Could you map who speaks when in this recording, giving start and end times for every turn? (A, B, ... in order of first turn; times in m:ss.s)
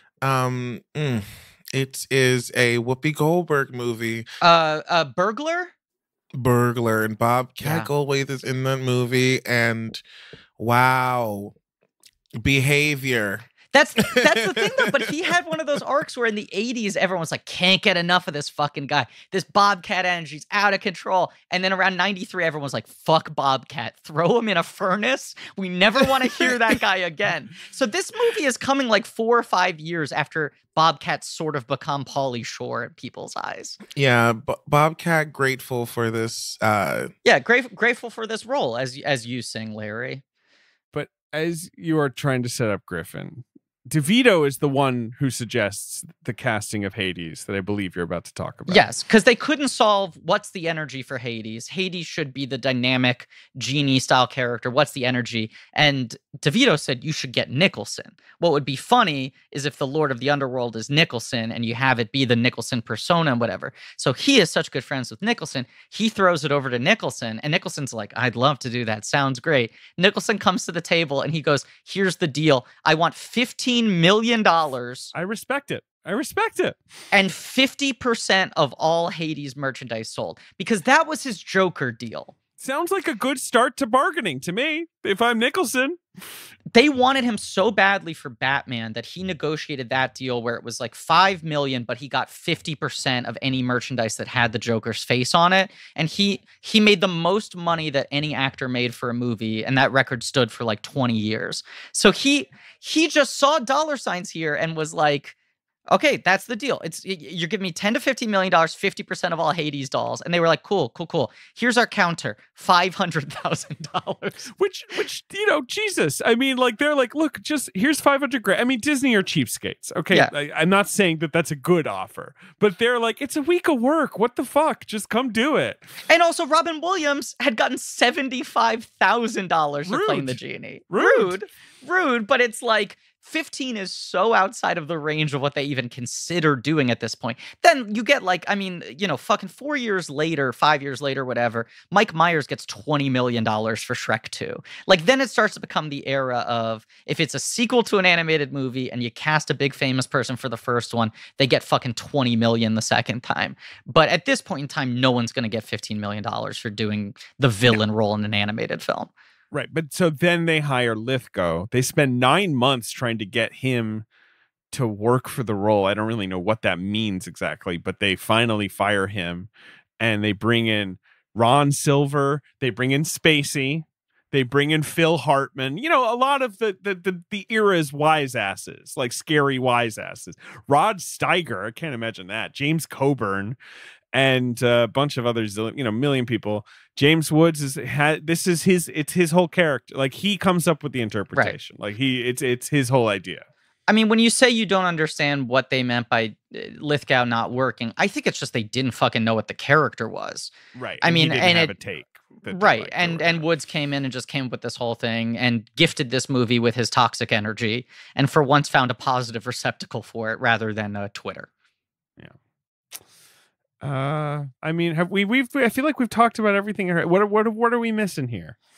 0:00.2-0:04.3 A
0:04.4-0:05.7 B
0:06.3-0:10.0 A
0:07.6-0:07.9 B
0:10.6-0:11.6 A
0:12.4-0:13.5 A
0:13.7-0:33.8 B
0:14.1-0:15.0 A
0:33.9-0:37.1 A
0:37.2-0:40.2 B
0:40.9-0:48.9 C
0:48.7-1:15.1 B
1:15.1-1:16.8 C
1:17.1-1:22.3 B
1:22.6-1:26.0 C
1:26.7-1:45.4 B
1:45.9-1:54.5 B
1:54.6-2:05.9 C
2:06.1-2:39.1 B
2:09.9-2:10.4 C
2:10.9-2:11.4 C
2:39.5-2:44.0 C
2:44.7-2:49.5 C
2:50.0-3:03.6 C
3:04.1-3:13.4 C
3:13.9-3:20.5 B
3:20.8-3:23.5 C
3:21.0-3:21.7 B
3:22.5-3:31.5 B
3:33.8-3:38.6 C